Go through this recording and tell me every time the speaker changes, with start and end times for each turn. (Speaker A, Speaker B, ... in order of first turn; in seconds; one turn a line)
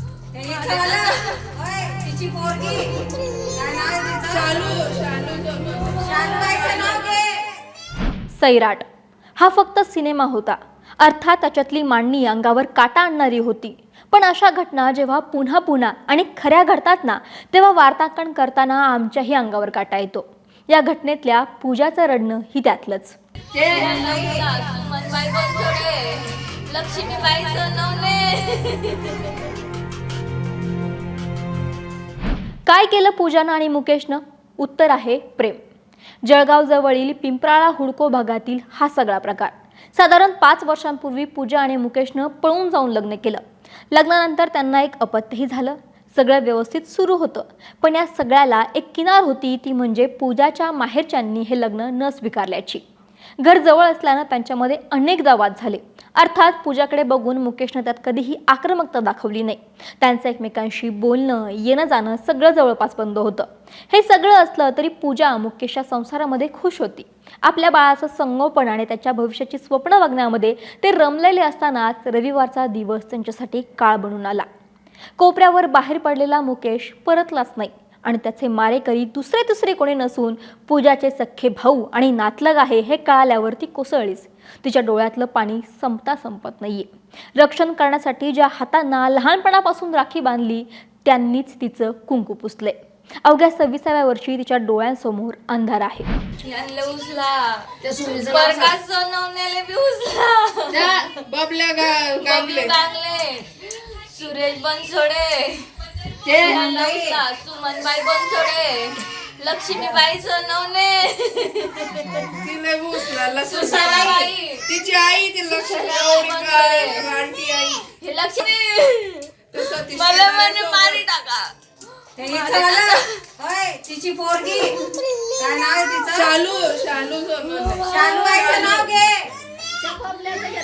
Speaker A: 0.3-4.7
Speaker B: 0.4-1.5
Speaker C: 4.2-7.1
Speaker A: 6.0-7.5
Speaker D: 8.3-8.8
Speaker D: 9.4-23.2
Speaker A: 23.5-24.4
Speaker B: 23.6-29.4
Speaker D: 32.7-35.6
Speaker D: 36.2-52.8
Speaker D: 53.4-74.5
Speaker D: 75.2-96.1
Speaker B: 96.4-101.2
Speaker A: 97.8-98.7
Speaker C: 100.7-102.8
Speaker B: 102.2-112.3
Speaker A: 106.3-107.2
Speaker C: 112.3-114.0
Speaker B: 113.0-114.7
Speaker A: 113.5-114.3
Speaker C: 114.6-117.9
Speaker B: 115.4-117.1
Speaker B: 118.0-121.5
Speaker C: 119.5-121.0
Speaker B: 122.2-123.2
Speaker A: 122.2-124.8
Speaker A: 125.4-126.3
Speaker C: 126.1-128.8
Speaker B: 127.6-128.9
Speaker A: 127.8-129.3